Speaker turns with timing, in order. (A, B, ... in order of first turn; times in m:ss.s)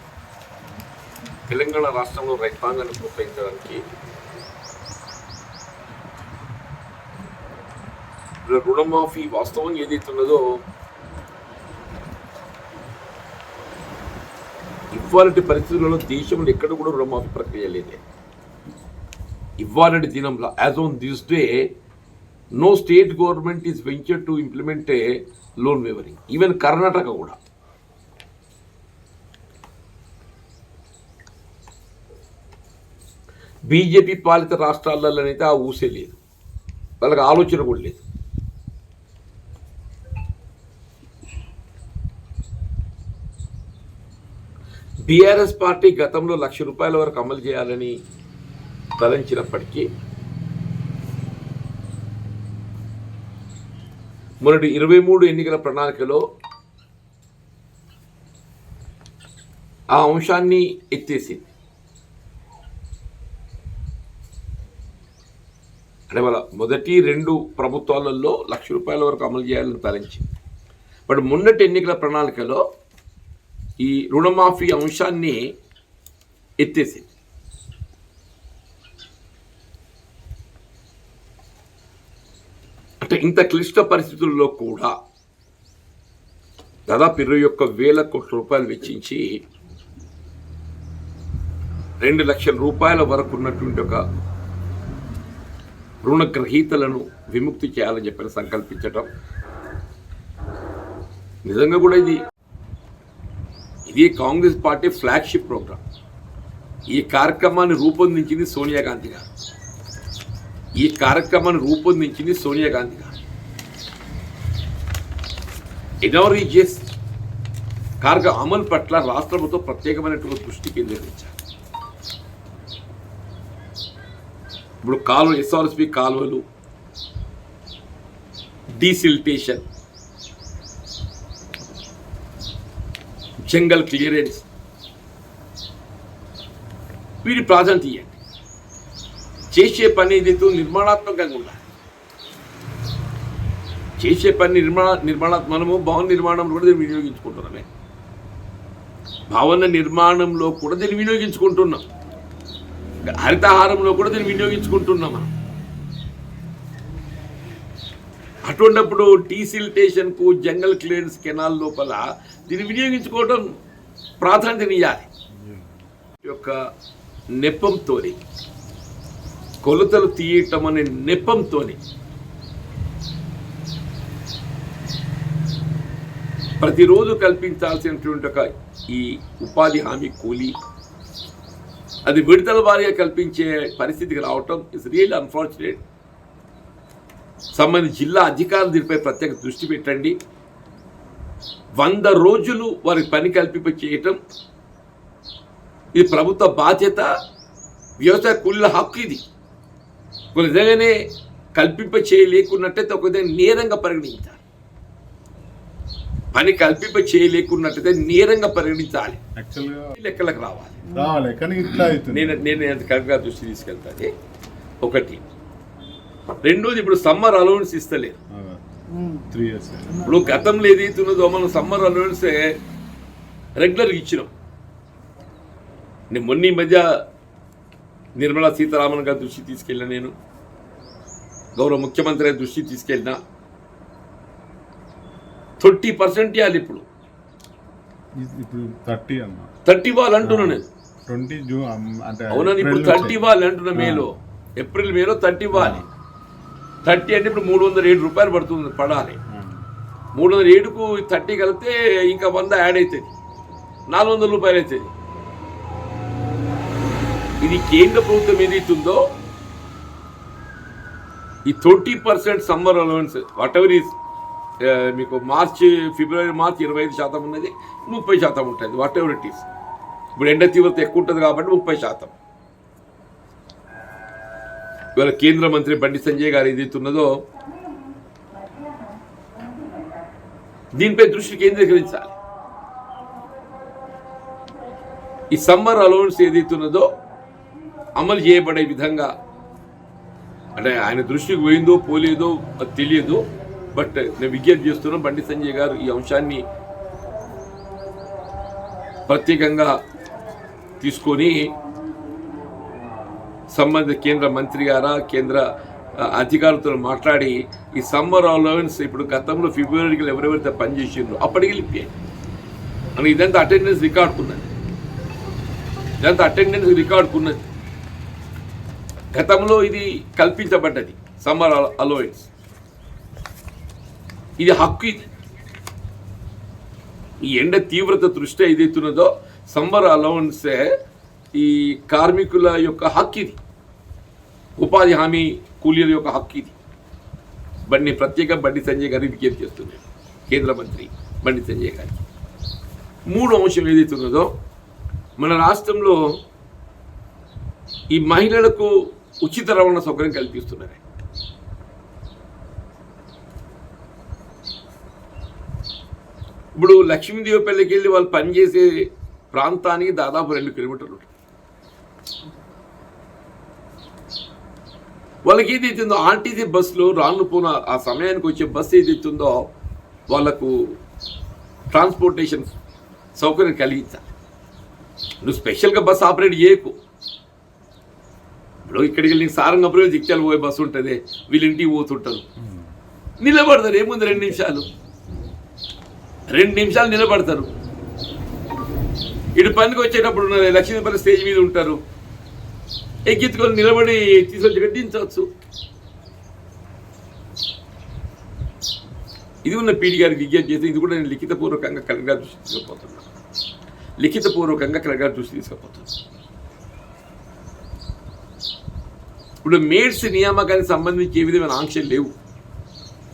0:01.5-0:03.8 A
0:08.4-0:10.4 A
0:14.9-0:18.0 A
0:19.6-0:21.7 A
0:22.5-0:27.4 A
0:33.7-0:36.2 A
0:37.0-0:38.0 A
0:45.0-0:48.0 A
0:49.0-0:49.9 A
0:54.4-0:56.2 A
0:59.9-1:01.4 A
1:06.1-1:10.3 A
1:11.1-1:12.6 A
1:13.8-1:15.4 A
1:16.6-1:17.1 A
1:23.0-1:24.9 A
1:26.9-1:29.4 A
1:32.0-1:34.0 A
1:36.0-1:39.1 A
1:41.4-1:42.2 A
1:43.9-1:45.8 A
1:46.9-1:49.2 A
1:50.8-1:53.1 A
1:56.0-1:56.9 A
1:58.0-2:01.3 A
2:04.8-2:06.4 A
2:08.7-2:09.6 A
2:13.4-2:14.4 A
2:17.2-2:18.2 A
2:19.5-2:21.6 A
2:24.0-2:27.6 A
2:29.3-2:31.8 A
2:33.2-2:35.3 A
2:38.4-2:43.4 A
2:44.2-2:45.1 A
2:46.2-2:46.5 A
2:47.4-2:48.2 A
2:49.6-2:51.8 A
2:56.6-3:00.6 A
3:02.0-3:05.8 A
3:07.5-3:10.2 A
3:11.8-3:14.2 A
3:15.9-3:17.1 A
3:18.0-3:19.2 A
3:20.3-3:21.0 A
3:21.6-3:24.4 A
3:26.3-3:29.2 A
3:29.4-3:29.9 B
3:30.0-3:30.8 A
3:30.9-3:32.5 B
3:32.1-3:34.1 A
3:34.8-3:35.2 A
3:36.4-3:38.2 A
3:38.3-3:38.6 B
3:39.2-3:40.3 B
3:40.0-3:42.5 A
3:43.6-3:44.3 A
3:46.1-3:46.9 A
3:48.2-3:50.1 A
3:51.6-3:53.2 A
3:55.6-3:56.8 A
3:58.2-3:59.5 B
3:59.6-4:00.7 A
4:00.2-4:03.2 B
4:02.3-4:05.9 A
4:03.7-4:04.0 B
4:05.5-4:05.8 B
4:06.8-4:09.2 A
4:09.3-4:09.6 B
4:10.2-4:13.1 A
4:13.9-4:14.9 A
4:17.4-4:19.0 A
4:21.5-4:23.9 A
4:24.6-4:29.5 A
4:30.2-4:32.1 A
4:35.0-4:37.1 A
4:40.8-4:42.1 A
4:45.3-4:46.9 A
4:48.0-4:49.1 A
4:50.6-4:56.4 A
4:59.1-4:59.7 A
5:00.8-5:01.5 A
5:03.5-5:05.4 A
5:06.0-5:11.9 A
5:13.0-5:14.5 A
5:16.0-5:17.4 A
5:19.1-5:22.3 A
5:24.4-5:25.1 A
5:27.2-5:30.7 A
5:31.3-5:33.4 A
5:34.6-5:36.5 A
5:37.7-5:42.0 A
5:43.1-5:44.3 A
5:45.2-5:46.2 A
5:47.9-5:48.7 A
5:49.2-5:50.8 A
5:56.6-5:58.7 A
5:59.3-6:01.1 A
6:05.2-6:09.5 A
6:10.1-6:10.8 A
6:11.7-6:12.5 A
6:13.2-6:14.1 A
6:15.2-6:16.7 A
6:18.6-6:22.2 A
6:23.2-6:24.7 A
6:26.3-6:27.5 A
6:29.3-6:31.8 A
6:33.1-6:35.3 A
6:39.4-6:43.0 A
6:44.0-6:45.9 A
6:49.4-6:52.1 A